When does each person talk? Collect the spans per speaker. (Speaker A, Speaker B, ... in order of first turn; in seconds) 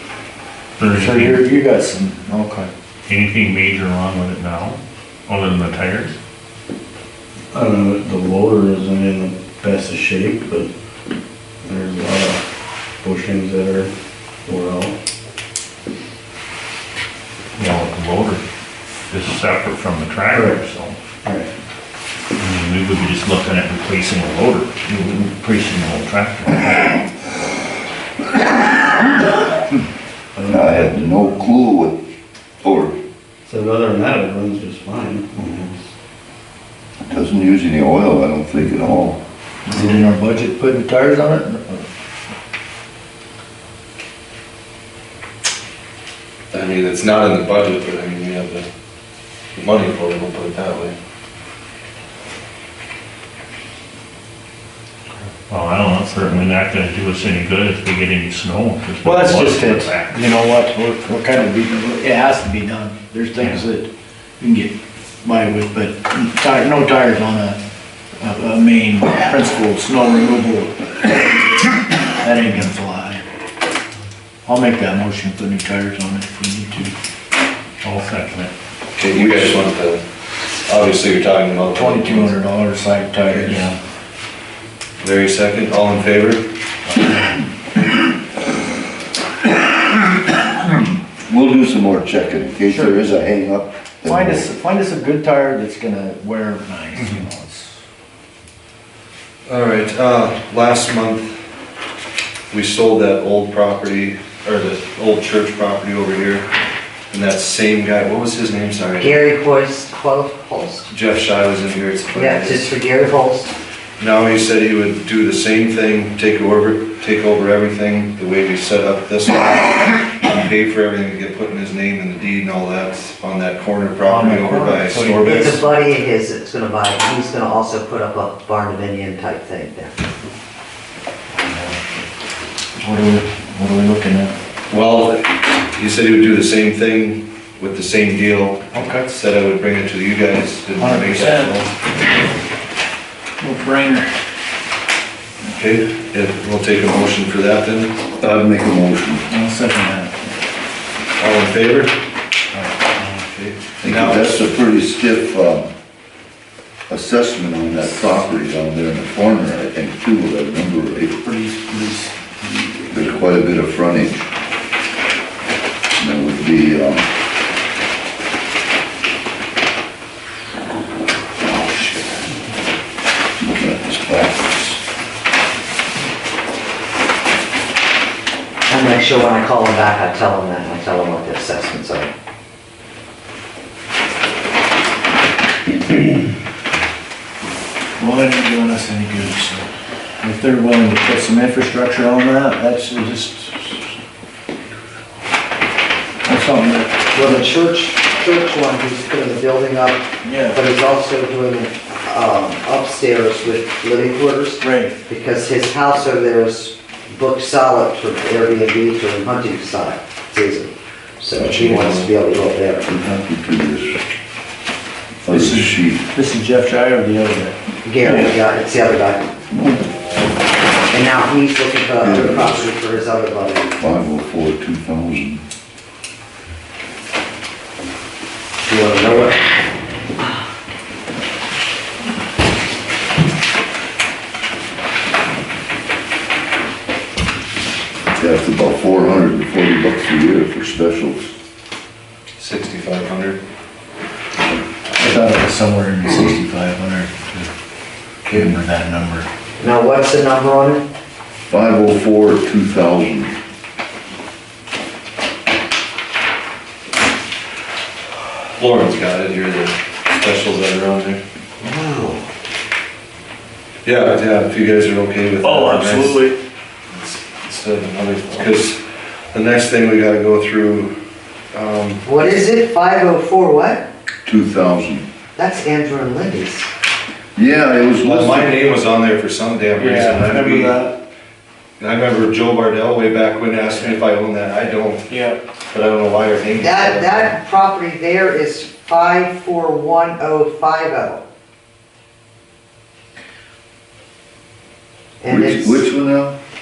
Speaker A: 0.8-1.5, 3.1-6.2, 17.6-18.4, 19.1-21.0, 22.4-27.1, 55.5-60.1, 63.4-63.6, 77.8-78.5
Speaker B: 0.9-2.7, 39.7-41.9, 59.0-67.6, 68.2-71.4, 72.0-73.2, 74.5-76.9, 79.1-79.6, 81.7-83.8, 86.9-87.4, 92.7-93.0, 94.0-97.8, 124.0-125.4, 131.5-131.8, 132.8-134.3, 138.7-139.1, 140.8-141.6, 143.4-144.1, 149.3-150.1, 152.5-153.2, 153.8-154.1, 157.8-158.2, 161.0-163.2, 188.0-189.7, 190.2-193.9, 196.2-197.5, 200.2-200.6, 204.6-205.0, 215.2-218.4, 245.0-247.5, 248.3-249.3, 265.4-266.4, 279.8-281.0, 283.7-284.0, 285.1-285.4
Speaker C: 7.5-10.7, 11.7-12.4, 13.0-13.9, 14.5-14.9, 20.3-20.6, 21.2-21.5, 30.4-30.9, 33.5-35.8
Speaker D: 30.5-32.0, 32.6-33.0, 37.1-39.2, 90.3-90.5, 91.3-94.5, 148.2-149.3, 153.8-155.7, 156.9-161.2, 162.9-164.3, 166.0-167.1, 173.4-174.8, 212.9-214.0, 215.2-216.1, 219.5-219.8, 222.0-222.7, 223.8-225.4, 238.2-241.3, 251.5-253.3, 274.3-275.1, 277.4-278.6, 295.3-296.4
Speaker E: 46.5-48.7, 49.6-51.0, 79.0-80.0, 80.7-82.3, 83.3-83.7, 85.0-86.4, 99.5-101.4, 102.5-106.5, 107.1-109.2, 110.9-112.7, 114.0-125.7, 134.7-141.7, 145.5-148.0, 151.2-151.9, 153.1-154.3, 211.4-212.1, 242.4-243.4, 258.6-261.2, 263.9-266.3, 266.9-268.8, 269.3-270.9, 271.5-272.0, 278.0-280.8, 281.8-285.1, 285.7-287.4
Speaker F: 109.0-110.9, 112.1-113.5, 125.2-130.0, 178.7-182.1, 197.1-212.9, 217.8-219.3, 220.9-223.7, 228.6-229.5, 249.6-250.9, 272.0-273.9, 275.4-276.7, 286.6-291.2, 295.2-295.9